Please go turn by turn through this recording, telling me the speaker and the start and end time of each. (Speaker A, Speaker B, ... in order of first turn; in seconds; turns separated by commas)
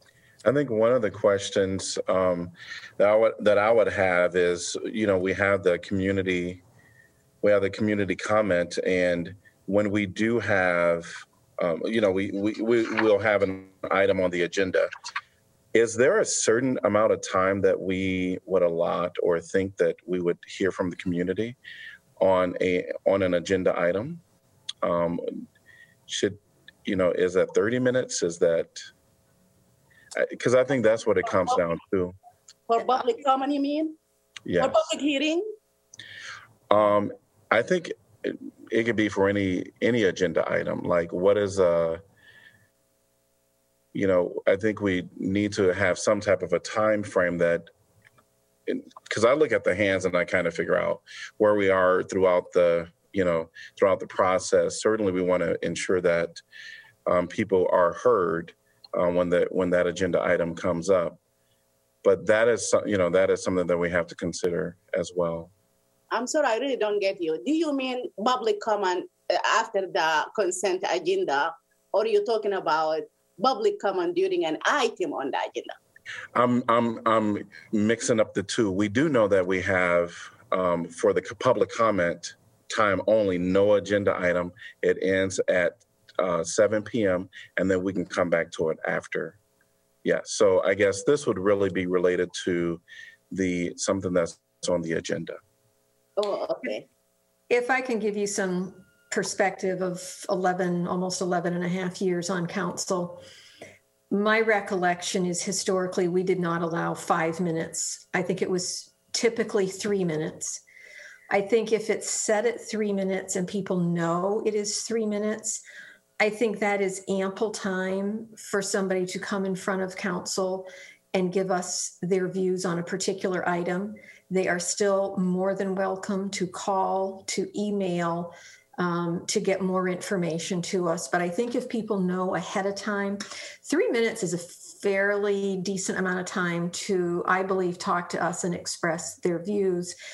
Speaker A: 0.4-6.6, Speaker A: 7.4-14.9, Speaker A: 15.7-21.6, Speaker A: 22.2-24.2, Speaker A: 24.8-25.5, Speaker A: 26.1-28.9, Speaker A: 30.1-32.1, Speaker B: 32.7-34.0, Speaker A: 34.5-34.8, Speaker B: 34.6-35.4, Speaker A: 36.7-42.0, Speaker A: 43.9-47.7, Speaker A: 48.7-56.4, Speaker A: 57.0-61.2, Speaker A: 62.0-65.5, Speaker B: 66.1-75.7, Speaker A: 76.3-89.4, Speaker A: 90.0-95.4, Speaker B: 96.2-96.8, Speaker C: 97.5-103.2, Speaker C: 104.1-110.6, Speaker C: 111.3-115.6, Speaker C: 116.2-139.9